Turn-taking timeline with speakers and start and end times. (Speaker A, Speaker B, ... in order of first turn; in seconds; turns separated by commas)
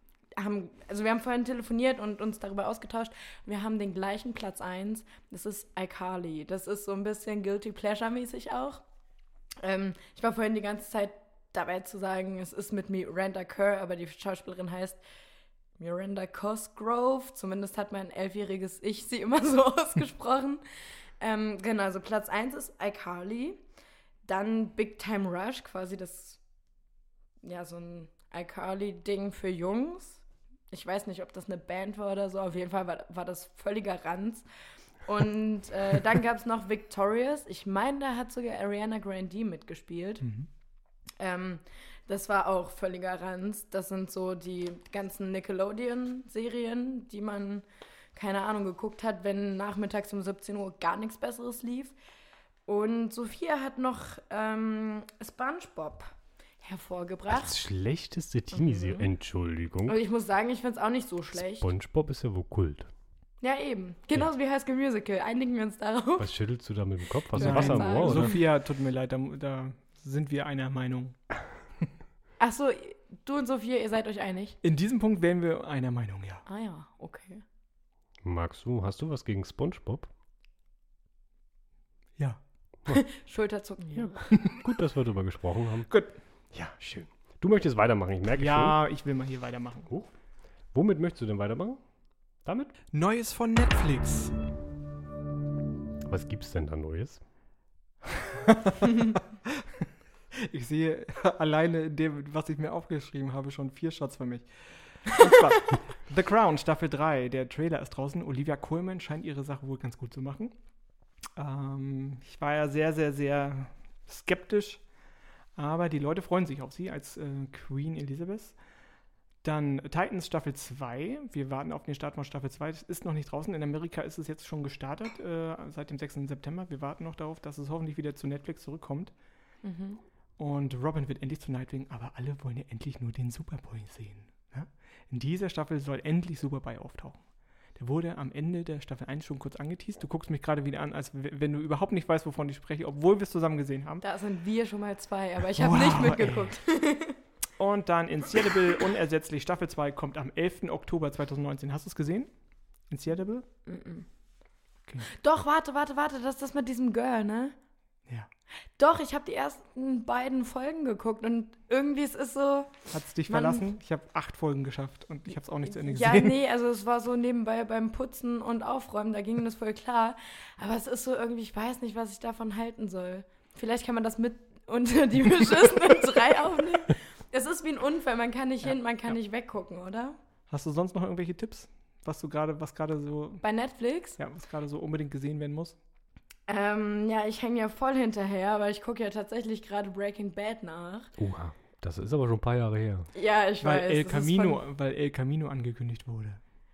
Speaker A: 0.3-8.8, Speaker A: 9.6-15.0, Speaker A: 15.8-20.6, Speaker A: 21.2-23.6, Speaker A: 24.2-26.4, Speaker A: 27.4-34.5, Speaker A: 35.0-40.2, Speaker B: 40.2-40.5, Speaker A: 41.2-52.0, Speaker A: 52.7-56.1, Speaker A: 56.6-57.5, Speaker C: 57.3-60.0, Speaker A: 58.5-59.1, Speaker A: 59.9-61.7, Speaker C: 61.4-62.9, Speaker A: 63.4-66.3, Speaker C: 66.2-68.3, Speaker A: 67.3-68.4, Speaker B: 67.3-71.2, Speaker A: 72.4-74.6, Speaker B: 74.6-76.4, Speaker A: 76.5-77.4, Speaker C: 78.2-80.1, Speaker A: 82.9-84.4, Speaker C: 84.0-85.9, Speaker C: 86.5-88.8, Speaker B: 88.4-89.9, Speaker C: 90.7-91.8, Speaker C: 92.5-92.8, Speaker B: 92.9-94.3, Speaker C: 96.0-97.2, Speaker B: 98.1-104.5, Speaker B: 105.0-110.5, Speaker B: 111.4-114.8, Speaker B: 115.6-118.6, Speaker B: 119.4-129.1, Speaker A: 129.6-130.0, Speaker B: 130.4-137.2, Speaker B: 137.8-144.0, Speaker A: 144.0-147.2, Speaker B: 145.6-146.6, Speaker B: 147.6-152.3, Speaker B: 152.9-153.5, Speaker A: 153.7-154.1, Speaker A: 155.1-157.6, Speaker A: 158.8-163.7, Speaker B: 162.9-166.4, Speaker A: 165.7-180.2, Speaker B: 180.5-183.4, Speaker A: 183.4-184.2, Speaker B: 184.2-185.8, Speaker A: 186.5-191.1, Speaker C: 191.2-193.1, Speaker A: 193.2-194.6, Speaker B: 193.6-196.4